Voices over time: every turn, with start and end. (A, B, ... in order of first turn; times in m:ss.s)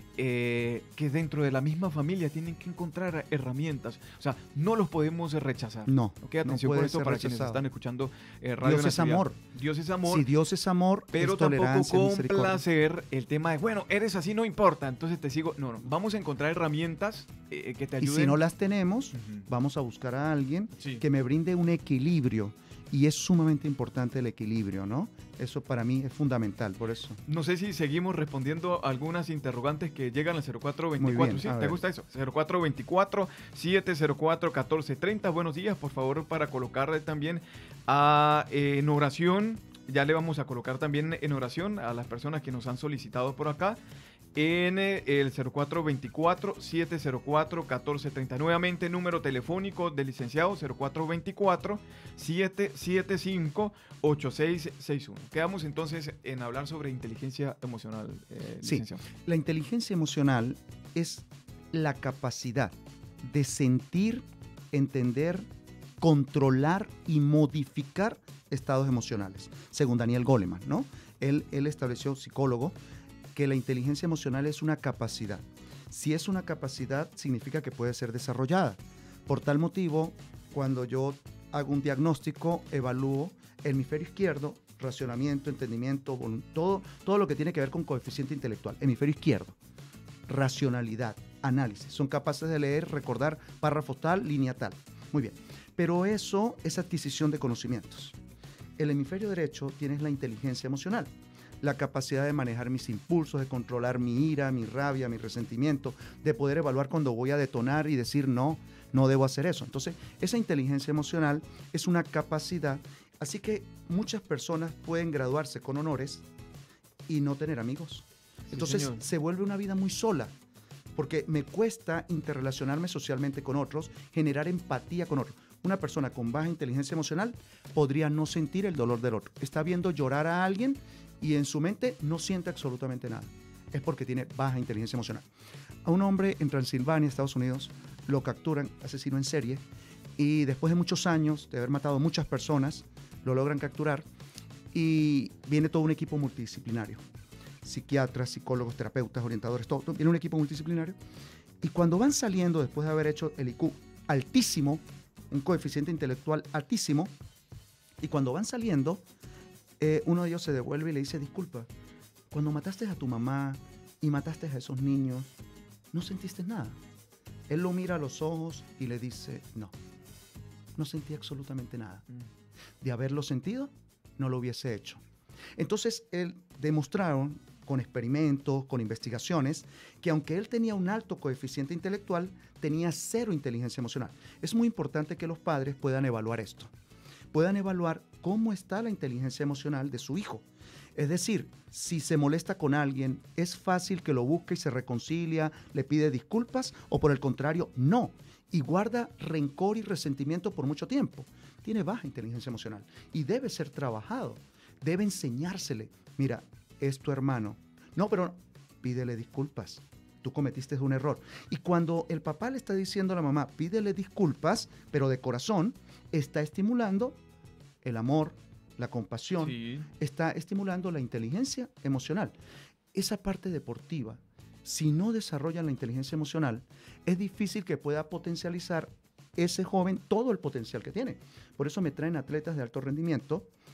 0:00.2-0:10.3 A
0:05.9-0:07.6 B
0:08.6-0:09.4 B
0:10.0-0:12.6 B
0:11.1-0:18.4 A
0:18.0-0:27.2 B
0:19.2-0:19.4 A
0:20.8-0:21.0 A
0:27.3-0:43.8 A
0:31.0-0:31.8 B
0:44.3-0:59.0 A
0:58.6-1:05.5 B
1:06.0-1:12.8 B
1:13.3-1:29.6 B
1:30.3-1:38.2 B
1:38.8-1:56.2 B
1:57.1-2:00.3 B
1:58.5-1:59.0 A
2:00.9-2:15.2 B
2:15.8-2:19.6 B
2:20.2-2:24.0 B
2:24.7-2:27.0 B
2:27.6-2:31.0 B
2:31.6-2:37.1 B
2:38.0-2:39.0 B
2:39.8-2:41.7 B
2:42.3-2:45.3 B
2:45.9-2:46.8 B
2:47.5-2:49.7 B
2:50.8-2:52.0 B
2:52.8-2:55.0 B
2:55.6-3:06.7 B
3:07.3-3:37.2 B
3:37.8-3:42.3 B
3:39.4-3:39.9 A
3:42.9-3:53.5 B